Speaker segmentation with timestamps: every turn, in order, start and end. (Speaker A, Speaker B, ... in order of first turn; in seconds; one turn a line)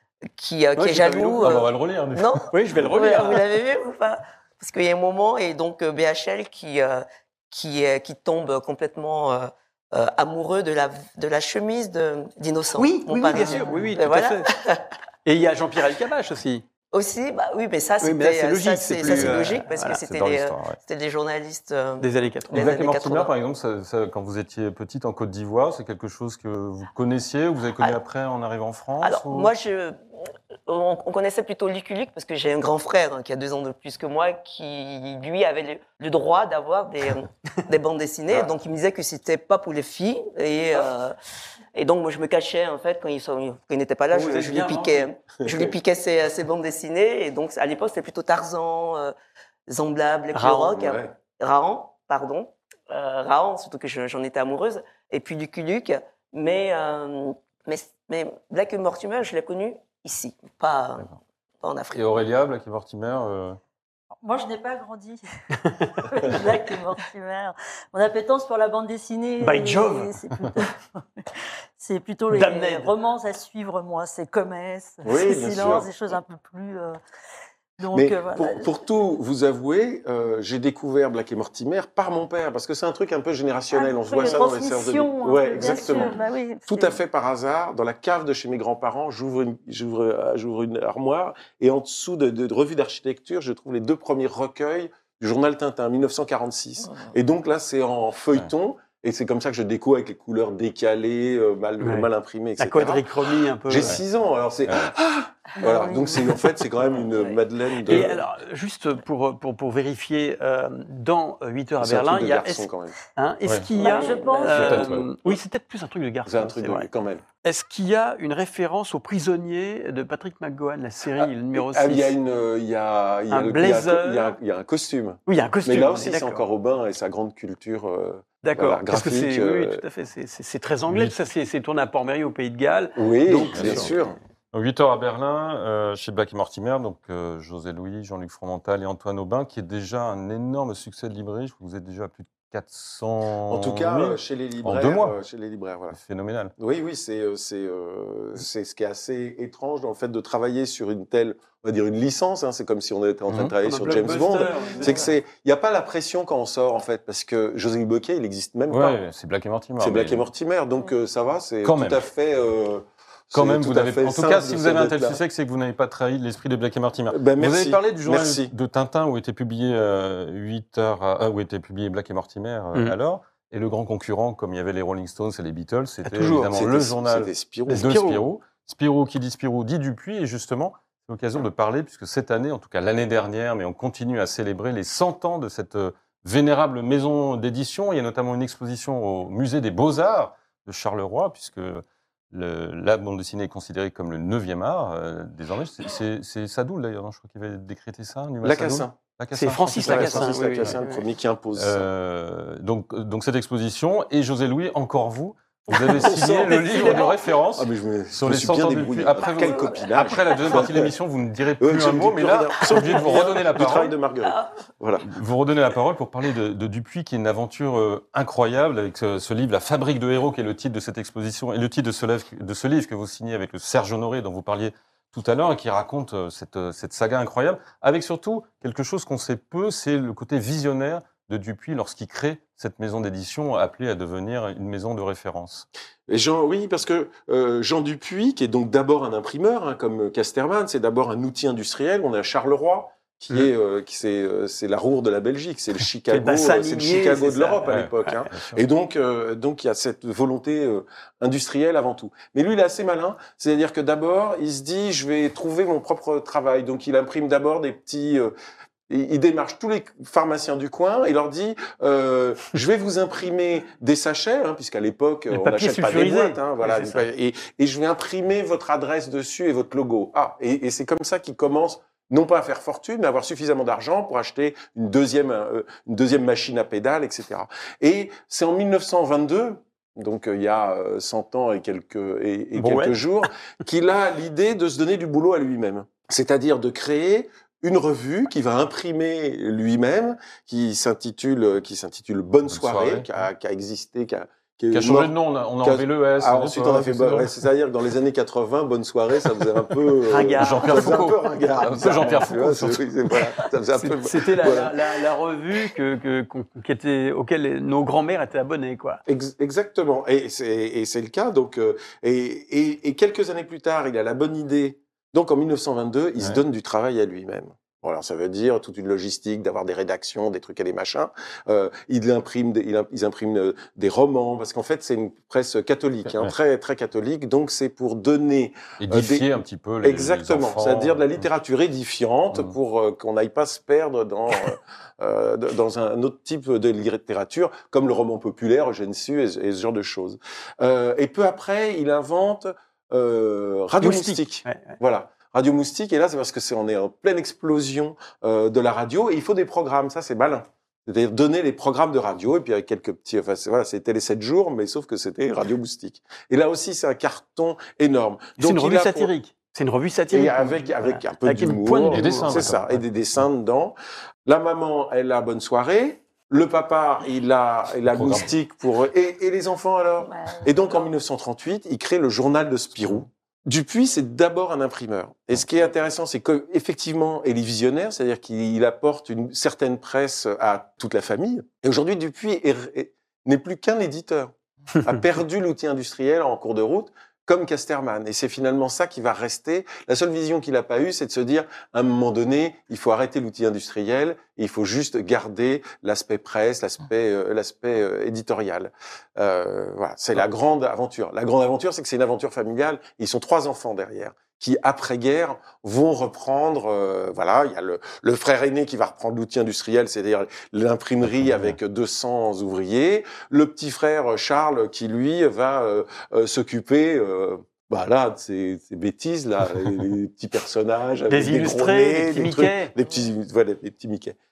Speaker A: 0.4-14.9
Speaker B: 0.8-1.6
Speaker C: 1.4-2.5
Speaker B: 2.5-3.4
Speaker B: 12.8-14.5
Speaker B: 15.2-16.6
Speaker A: 16.9-23.3
Speaker B: 18.0-19.9
Speaker C: 19.0-20.8
Speaker B: 22.0-22.8
Speaker C: 22.5-29.5
Speaker A: 29.0-30.0
Speaker A: 30.7-41.1
Speaker A: 41.8-49.1
Speaker B: 44.1-45.1
Speaker A: 49.7-62.2
Speaker B: 50.3-50.7
Speaker D: 50.7-51.1
Speaker C: 61.9-63.6
Speaker E: 64.2-65.2
Speaker E: 65.9-71.0
Speaker B: 69.4-70.1
Speaker E: 71.8-77.0
Speaker B: 72.3-72.9
Speaker D: 75.0-75.9
Speaker E: 77.8-78.7
Speaker D: 77.9-108.2
Speaker E: 83.7-87.0
Speaker B: 101.8-104.0
Speaker E: 105.6-106.1
Speaker B: 107.9-116.9
Speaker D: 111.8-113.0
Speaker A: 113.8-114.9
Speaker E: 113.8-114.9
Speaker C: 114.5-115.1
Speaker D: 116.3-117.2
Speaker B: 117.4-122.1
Speaker D: 121.2-129.8
Speaker B: 123.3-124.3
Speaker B: 125.3-126.4
Speaker B: 128.4-134.0
Speaker C: 130.9-131.2
Speaker D: 133.0-134.2
Speaker C: 133.5-133.9
Speaker C: 134.5-145.2
Speaker D: 143.5-146.0
Speaker C: 145.9-146.5
Speaker D: 146.6-159.0
Speaker C: 153.3-153.5
Speaker B: 153.6-155.1
Speaker C: 158.7-160.3
Speaker D: 159.8-165.2
Speaker C: 161.6-162.0
Speaker C: 163.3-200.8
Speaker D: 167.1-168.5
Speaker B: 176.1-176.6
Speaker D: 176.5-178.0
Speaker B: 177.7-178.2
Speaker D: 198.4-199.0
Speaker B: 199.3-201.0
Speaker D: 199.8-201.9
Speaker C: 201.6-213.9
Speaker D: 205.7-210.9
Speaker A: 206.6-207.1
Speaker D: 211.6-215.1
Speaker A: 214.2-214.5
Speaker C: 215.1-235.7
Speaker D: 236.1-258.3
Speaker B: 246.1-248.2
Speaker C: 247.7-248.6
Speaker D: 258.9-304.8
Speaker B: 265.3-267.0
Speaker B: 282.6-283.0
Speaker C: 292.5-293.1
Speaker C: 294.7-297.4
Speaker B: 300.1-301.1
Speaker C: 300.4-302.9
Speaker B: 303.7-309.0
Speaker D: 309.1-329.3
Speaker C: 326.1-326.3
Speaker C: 328.8-331.2
Speaker D: 329.8-359.1
Speaker B: 343.8-344.8
Speaker B: 358.4-362.5
Speaker D: 360.1-363.7
Speaker C: 361.9-362.8
Speaker D: 364.3-424.2
Speaker C: 367.9-368.3
Speaker A: 370.3-370.6
Speaker B: 421.1-422.7